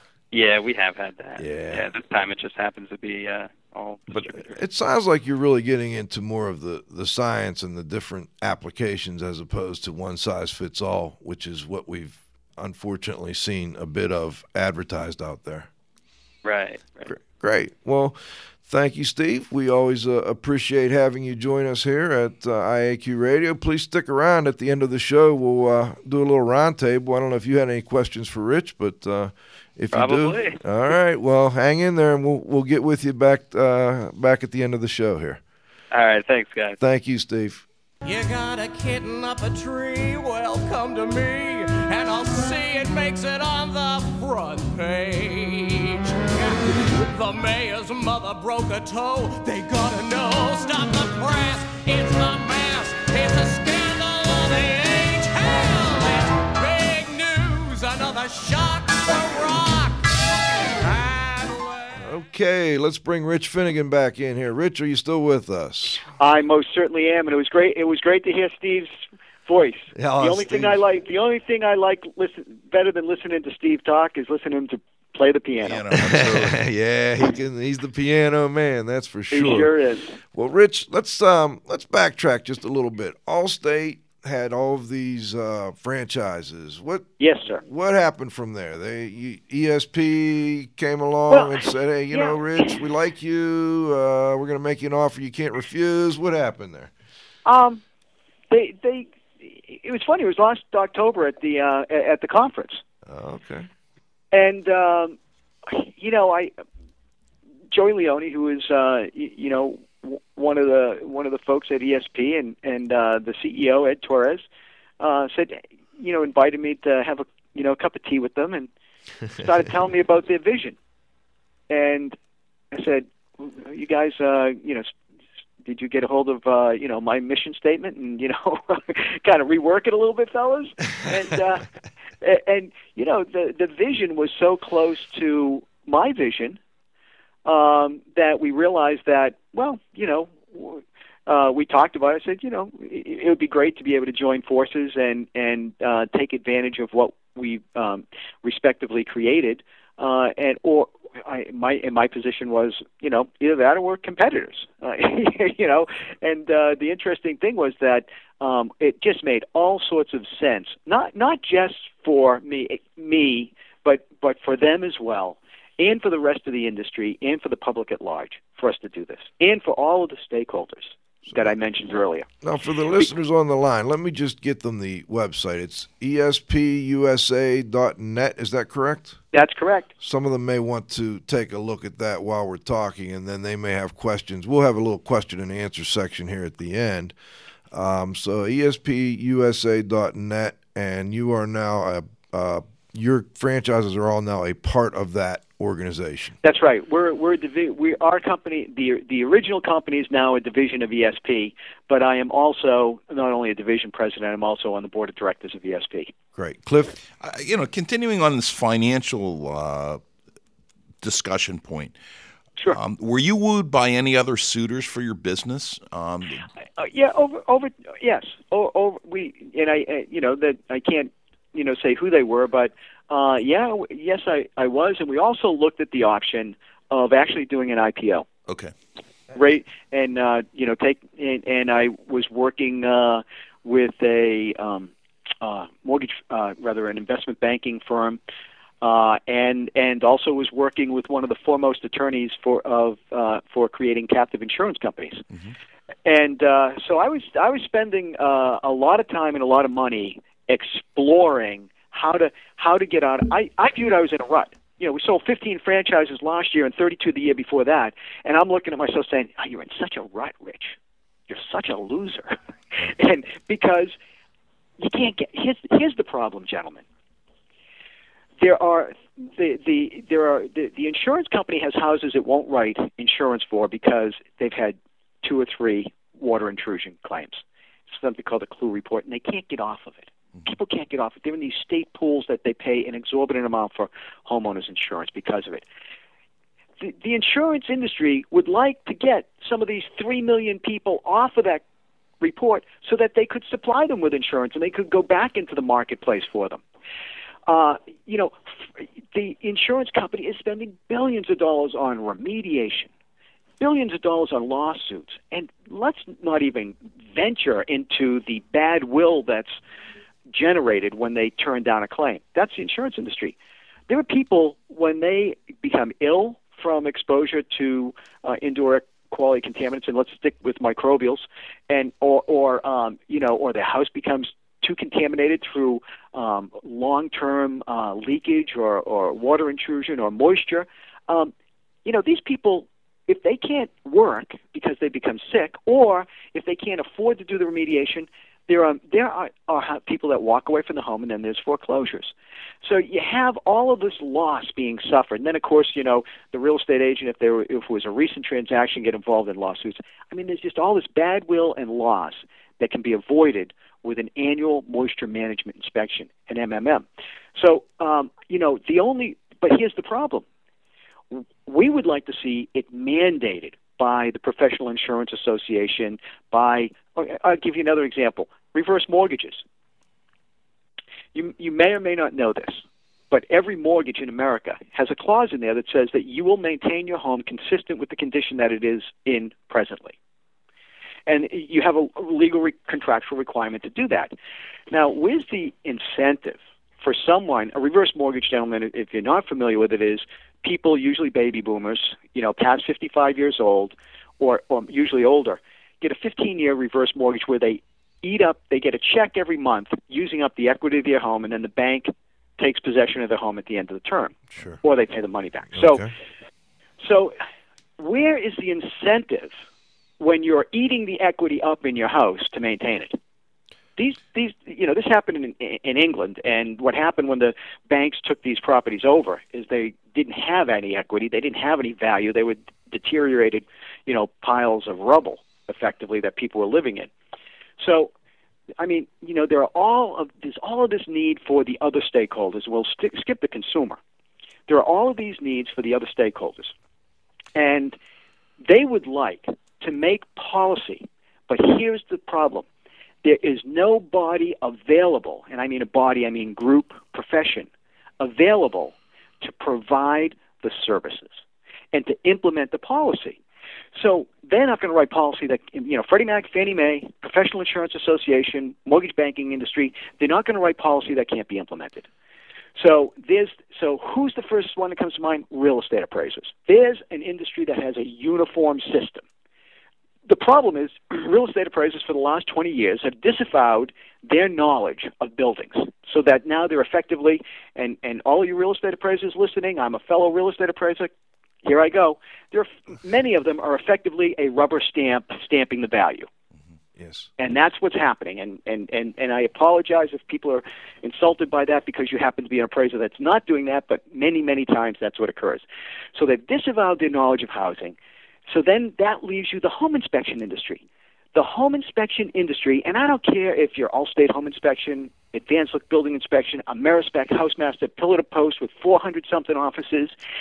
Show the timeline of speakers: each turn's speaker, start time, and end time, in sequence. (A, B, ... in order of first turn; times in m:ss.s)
0:00.3-0:04.6 A
0:01.4-0:01.8 B
0:04.2-0:15.7 B
0:16.4-0:17.1 A
0:17.0-0:35.4 B
0:29.9-0:30.6 A
0:35.9-0:36.8 A
0:36.8-0:37.6 B
0:38.0-1:02.0 C
1:02.0-1:06.1 B
1:06.2-1:15.8 D
1:09.9-1:10.8 B
1:15.6-1:16.6 E
1:15.9-1:19.7 B
1:19.3-1:20.2 D
1:20.3-1:36.9 B
1:27.2-1:27.6 D
1:31.3-1:31.6 D
1:32.1-1:32.7 D
1:37.4-1:37.8 D
1:38.5-1:42.8 D
1:43.0-1:43.7 B
1:44.3-1:46.5 D
1:47.7-1:54.4 D
1:55.0-1:58.7 D
1:59.3-2:00.8 D
2:01.7-2:02.2 D
2:02.7-2:04.9 D
2:05.6-2:11.7 D
2:12.2-2:16.6 D
2:17.4-2:52.3 D
2:51.2-2:51.5 B
2:52.4-2:59.2 B
2:59.3-2:59.9 D
3:00.0-3:07.1 B
3:07.7-3:16.4 B
3:16.4-3:26.1 D
3:26.3-3:27.0 B
3:27.2-3:30.0 E
3:31.0-3:31.9 E
3:32.7-3:36.4 E
3:36.8-3:48.2 D
3:48.5-3:48.7 E
3:49.3-3:58.2 D
3:58.8-4:05.2 D
4:06.0-4:20.8 D
4:21.3-4:23.9 D
4:24.8-4:26.8 D
4:28.4-4:45.6 D
4:46.8-4:51.6 D
4:52.2-4:56.6 D
4:57.5-5:02.9 D
5:03.6-5:09.6 D
5:10.3-5:13.3 D
5:13.9-5:31.3 D
5:31.8-6:00.2 D
6:01.1-6:09.4 D
6:11.1-6:19.9 D
6:21.1-6:24.1 D
6:24.7-6:45.8 D
6:44.3-6:44.6 B
6:45.5-6:45.9 B
6:46.8-6:47.2 D
6:47.8-6:49.3 D
6:50.0-6:53.0 D
6:53.8-7:06.9 D
7:07.6-7:07.9 D
7:08.6-7:13.8 D
7:14.5-7:16.5 D
7:17.4-7:17.8 D
7:18.4-7:22.4 D
7:23.0-7:27.5 D
7:28.0-7:31.2 D
7:31.7-7:33.2 D
7:33.7-7:41.9 D
7:42.6-7:49.0 D
7:50.1-8:00.9 D
8:01.4-8:06.1 D
8:06.8-8:07.1 B
8:07.2-8:17.8 D
8:18.3-8:29.9 D